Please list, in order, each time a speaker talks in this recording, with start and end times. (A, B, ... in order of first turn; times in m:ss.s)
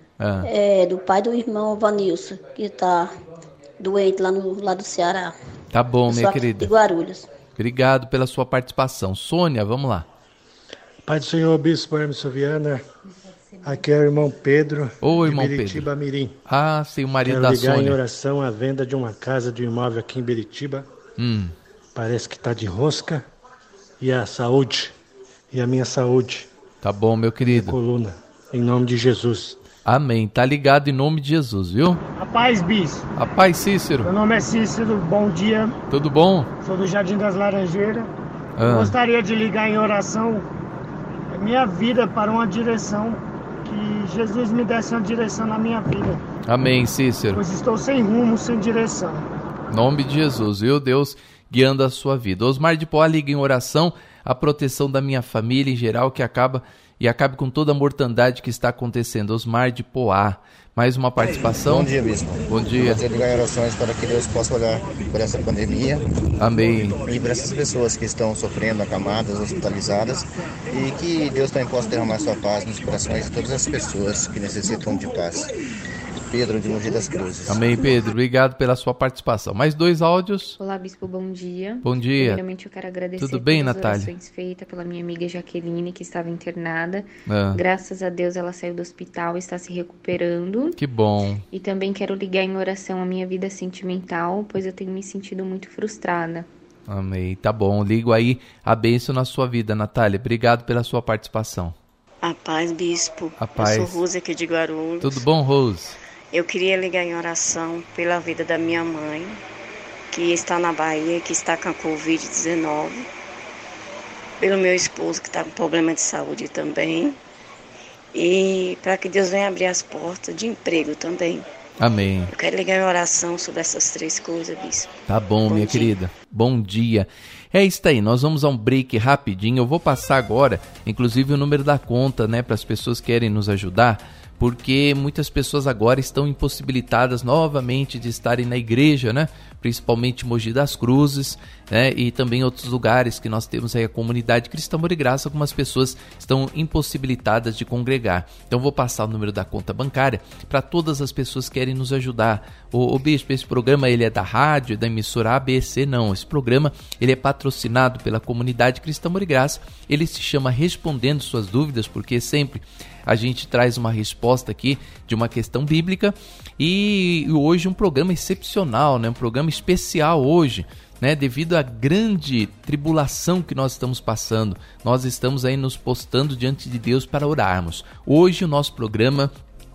0:00.2-0:00.5 A
0:00.4-0:03.1 B
0:03.8-0:05.3 B
0:05.7-0:06.7 A
0:06.1-0:07.3 B
0:07.6-0:10.1 A
0:11.0-0:12.8 C
0:13.6-0:16.3 C
0:15.0-0:15.9 A
0:16.5-0:18.0 A
0:17.2-0:20.9 C
0:21.2-0:21.5 A
0:21.9-0:23.2 C
0:24.0-0:24.9 C
0:25.5-0:26.5 C
0:26.8-0:27.8 A
0:27.4-0:29.6 C
0:29.8-0:32.0 A
0:32.1-0:33.0 D
0:33.1-0:34.1 A
0:34.0-0:35.8 D
0:35.9-0:36.5 A
0:36.6-0:38.1 D
0:38.6-0:39.0 A
0:38.6-0:40.4 D
0:41.3-0:46.2 D
0:46.5-0:47.4 A
0:47.3-0:49.3 D
0:49.7-1:01.9 A
1:01.4-1:06.0 E
1:02.5-1:03.0 A
1:06.4-1:07.0 A
1:06.9-1:15.5 E
1:16.3-1:17.7 E
1:17.5-1:20.5 A
1:20.6-1:30.8 F
1:21.8-1:22.4 A
1:23.2-1:24.1 A
1:27.3-1:27.6 A
1:30.8-1:31.4 A
1:31.5-1:36.5 F
1:36.9-1:41.8 A
1:42.2-1:45.2 G
1:43.4-1:44.0 A
1:45.0-1:46.0 A
1:46.3-1:49.4 G
1:50.1-1:53.1 G
1:54.4-1:57.2 G
1:58.1-2:01.4 G
2:01.8-2:02.3 A
2:02.3-2:04.9 G
2:05.1-2:59.3 A
2:05.5-2:06.0 G